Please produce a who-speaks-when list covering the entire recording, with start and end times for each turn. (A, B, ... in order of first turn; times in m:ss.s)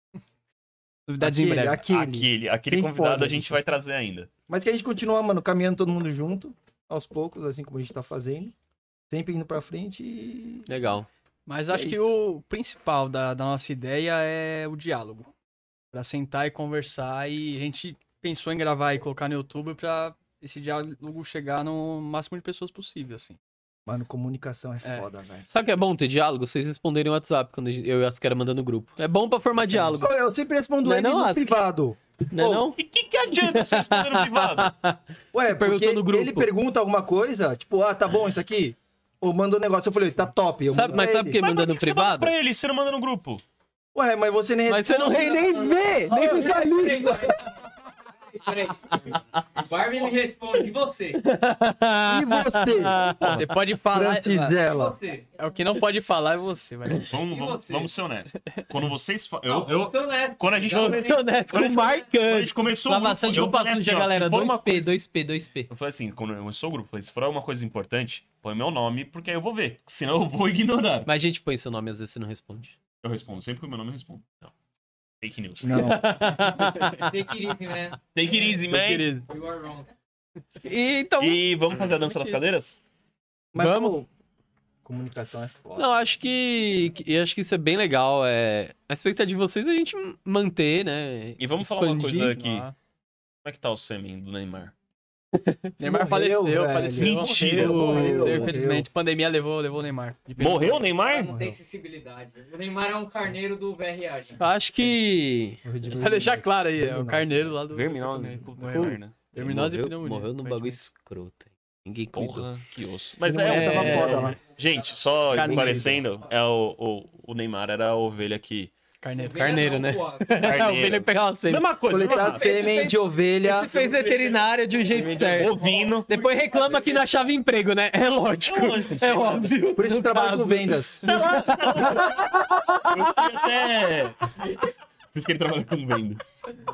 0:01.1-0:01.8 A
0:01.2-0:03.6 B
0:01.8-0:04.3 C
0:04.5-0:08.5 B
0:09.1-0:10.7 B
0:10.7-0:11.1 D
0:11.4-0:15.3 A
0:11.7-0:12.0 B
0:15.9-0:23.4 A
0:23.8-0:25.5 B
0:25.5-0:30.1 D
0:29.7-0:32.7 B
0:30.8-0:31.6 D
0:32.3-0:32.8 D
0:32.8-0:34.7 C
0:33.4-0:36.5 D
0:35.3-0:41.4 B
0:40.7-0:42.3 D
0:41.4-0:43.4 C
0:43.9-0:46.9 B
0:44.7-0:47.4 D
0:45.3-0:47.5 E
0:48.3-0:51.2 E
0:49.1-0:49.4 D
0:51.1-0:53.4 D
0:52.0-0:55.0 B
0:53.2-0:54.6 A
0:54.7-0:55.3 E
0:55.4-0:57.1 A
0:57.1-1:05.0 C
0:57.3-0:57.9 E
0:58.3-0:58.6 A
0:59.5-1:01.1 E
1:00.6-1:05.7 D
1:05.7-1:11.1 C
1:11.0-1:12.7 D
1:13.0-1:14.2 C
1:15.2-1:16.0 C
1:15.6-1:16.0 B
1:15.7-1:17.1 D
1:16.9-1:18.0 E
1:18.1-1:19.1 C
1:18.7-1:19.2 A
1:19.3-1:19.9 E
1:20.6-1:21.4 D
1:21.2-1:22.8 C
1:23.5-1:24.1 B
1:23.6-1:24.0 D
1:24.8-1:25.9 B
1:25.8-1:32.3 D
1:31.4-1:32.7 C
1:32.0-1:32.7 A
1:33.4-1:34.7 C
1:35.3-1:35.7 D
1:35.8-1:40.9 A
1:35.8-1:38.9 B
1:37.0-1:38.4 C
1:37.9-1:38.5 D
1:40.4-1:41.3 C
1:40.9-1:44.4 E
1:41.2-1:41.6 B
1:44.4-1:45.6 D
1:45.6-1:47.5 B
1:45.9-1:50.8 A
1:47.7-1:49.1 C
1:49.3-1:52.5 D
1:52.1-1:58.7 C
1:53.2-1:54.4 B
1:53.4-1:54.3 D
1:55.3-1:56.0 B
1:55.3-1:55.9 A
1:59.0-1:59.6 A
1:59.2-2:00.6 E
1:59.4-2:01.6 D
2:00.4-2:02.6 C
2:01.9-2:03.7 B
2:02.2-2:02.9 E
2:03.4-2:13.2 D
2:03.6-2:04.4 E
2:04.9-2:06.1 C
2:05.0-2:06.8 E
2:08.4-2:09.5 C
2:09.8-2:11.2 B
2:11.0-2:14.6 C
2:15.1-2:16.3 C